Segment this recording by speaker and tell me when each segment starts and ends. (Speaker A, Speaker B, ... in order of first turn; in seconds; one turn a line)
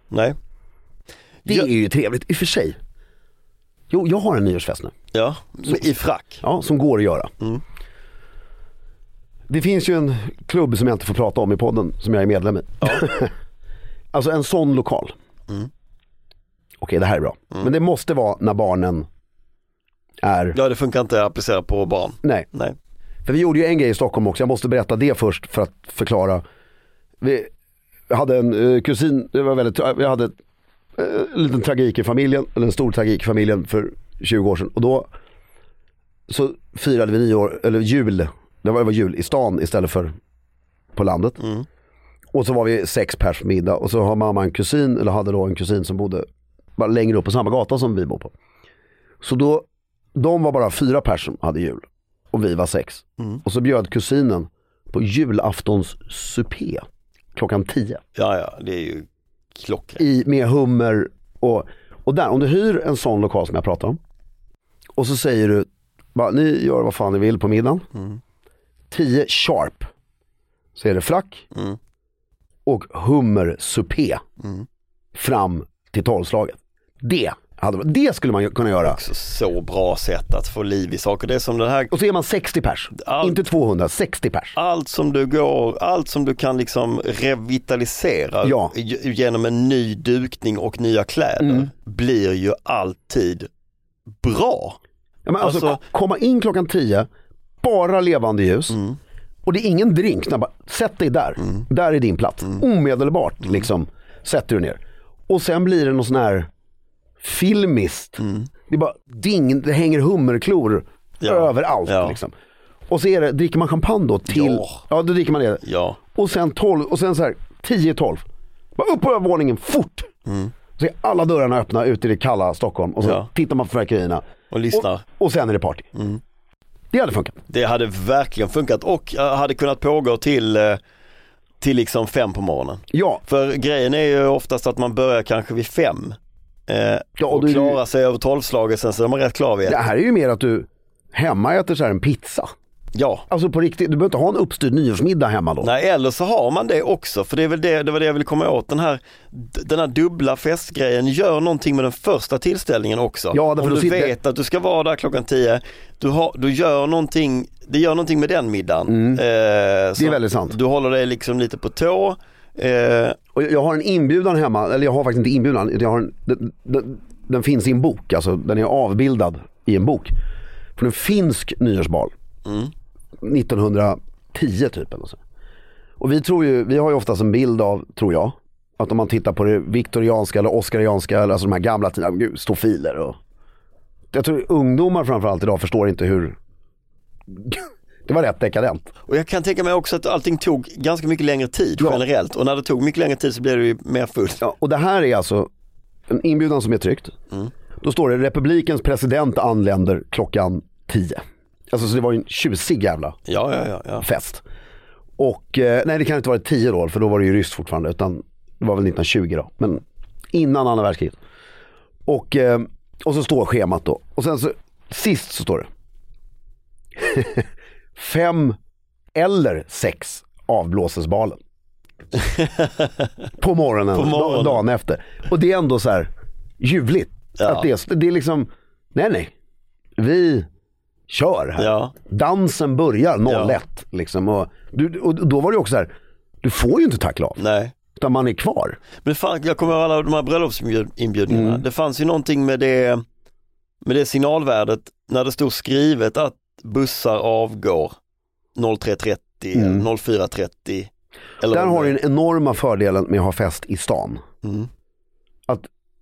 Speaker A: 0.1-0.4
Speaker B: 1.5-2.8
Speaker B: 3.9-4.9
Speaker A: 5.1-6.4
Speaker B: 6.4-7.3
Speaker B: 9.5-13.3
Speaker B: 14.1-15.1
Speaker B: 16.8-19.1
Speaker B: 20.2-20.6
Speaker A: 20.5-22.8
Speaker B: 23.3-26.4
Speaker B: 27.2-27.5
Speaker B: 28.1-30.3
Speaker B: 31.0-35.1
Speaker B: 36.3-40.1
Speaker B: 41.0-41.4
Speaker A: 41.4-41.7
Speaker B: 42.3-46.3
Speaker B: 46.8-48.3
Speaker B: 49.2-58.0
Speaker A: 58.2-60.0
Speaker B: 60.0-64.0
Speaker B: 65.0-67.9
Speaker A: 67.9-68.2
Speaker B: 68.9-69.9
Speaker B: 70.8-71.5
Speaker A: 71.5-71.8
Speaker B: 72.7-74.2
Speaker A: 74.4-74.7
Speaker B: 75.2-79.0
Speaker A: 78.8-81.9
Speaker B: 81.9-84.6
Speaker A: 83.0-83.4
Speaker A: 84.6-93.5
Speaker B: 88.4-88.7
Speaker B: 91.4-91.7
Speaker A: 94.2-94.8
Speaker B: 95.3-97.1
Speaker A: 95.4-95.8
Speaker B: 97.6-98.8
Speaker A: 98.7-99.0
Speaker B: 99.5-106.5
Speaker B: 107.2-112.3
Speaker A: 108.2-108.5
Speaker A: 111.2-112.2
Speaker B: 112.9-115.6
Speaker A: 114.3-114.8
Speaker A: 115.6-116.0
Speaker B: 116.1-118.2
Speaker B: 118.8-120.1
Speaker A: 120.3-120.5
Speaker B: 120.8-125.9
Speaker A: 123.0-123.3
Speaker A: 124.5-125.0
Speaker A: 125.9-126.2
Speaker B: 126.9-127.4
Speaker A: 127.5-130.8
Speaker A: 131.6-139.8
Speaker B: 132.9-133.2
Speaker B: 137.2-137.8
Speaker B: 139.7-142.5
Speaker A: 142.9-143.3
Speaker B: 143.3-145.7
Speaker A: 145.6-163.2
Speaker B: 153.3-154.2
Speaker B: 158.9-159.2
Speaker B: 160.0-160.6
Speaker B: 163.3-170.2
Speaker B: 170.8-172.1
Speaker A: 172.4-172.7
Speaker B: 173.2-175.2
Speaker B: 176.0-183.2
Speaker B: 184.1-186.4
Speaker B: 187.3-188.9
Speaker A: 189.1-194.4
Speaker B: 194.4-195.5
Speaker B: 196.1-197.1
Speaker B: 197.8-203.2
Speaker A: 203.3-204.1
Speaker B: 204.0-204.4
Speaker B: 205.2-209.8
Speaker B: 210.3-211.2
Speaker B: 212.1-215.7
Speaker B: 217.0-218.6
Speaker B: 219.2-221.4
Speaker A: 222.2-223.1
Speaker B: 223.4-229.3
Speaker A: 223.9-224.6
Speaker A: 227.4-227.7
Speaker B: 230.0-230.5
Speaker B: 231.1-237.4
Speaker A: 231.6-231.9
Speaker A: 233.3-233.6
Speaker A: 237.4-237.7
Speaker B: 238.0-238.8
Speaker A: 239.0-243.0
Speaker B: 241.3-241.6
Speaker A: 243.8-248.0
Speaker A: 248.6-252.0
Speaker B: 249.5-249.9
Speaker B: 251.5-254.2
Speaker A: 254.4-254.7